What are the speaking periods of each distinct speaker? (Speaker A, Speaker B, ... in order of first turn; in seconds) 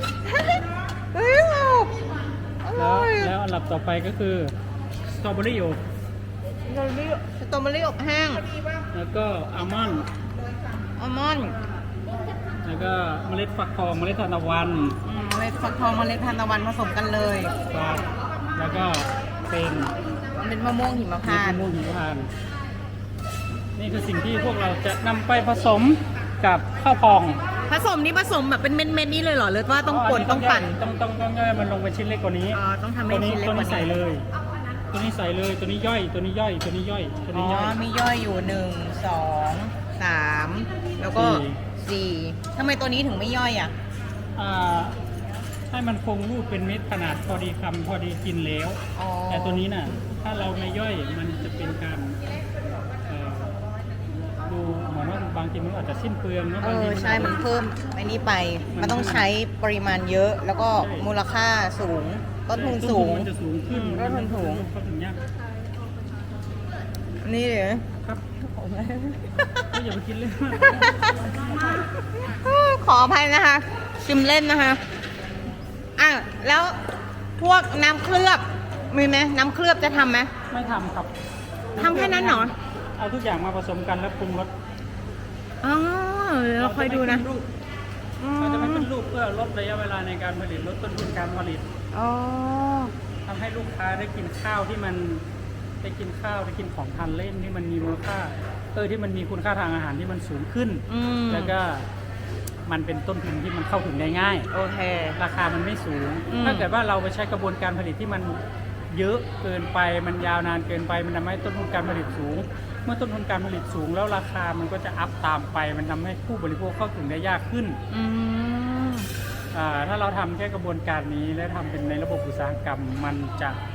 Speaker A: 0.3-1.9, 2.6-3.3, 6.7-8.4, 11.0-11.6, 15.0-17.5, 20.3-21.7, 27.7-30.8, 32.5-34.0, 37.3-43.7, 49.0-49.9, 56.6-64.7, 67.2-67.8, 68.4-69.8, 70.6-71.2, 72.2-74.8, 76.0-76.8, 77.4-80.3, 81.8-82.5, 85.6-87.3, 88.2-88.9, 91.9-92.9, 100.9-101.5, 104.5-105.2, 106.3-106.7, 117.9-119.1
Speaker B: 2.8-4.5, 5.1-5.8, 8.9-10.1, 12.6-15.0, 17.7-19.9, 21.2-22.3, 23.8-27.4, 29.9-34.2, 34.9-37.8, 41.1-41.6, 44.4-45.0, 45.7-52.4, 53.0-53.6, 54.4-57.4, 58.7-59.3, 60.8-61.1, 62.5-65.2, 69.7-71.8, 80.5-81.1, 81.7-84.5, 86.6-87.5, 88.4-91.7, 93.2-95.2, 95.8-101.9, 102.7-104.5, 105.2-108.4, 108.9-117.8, 119.5-123.6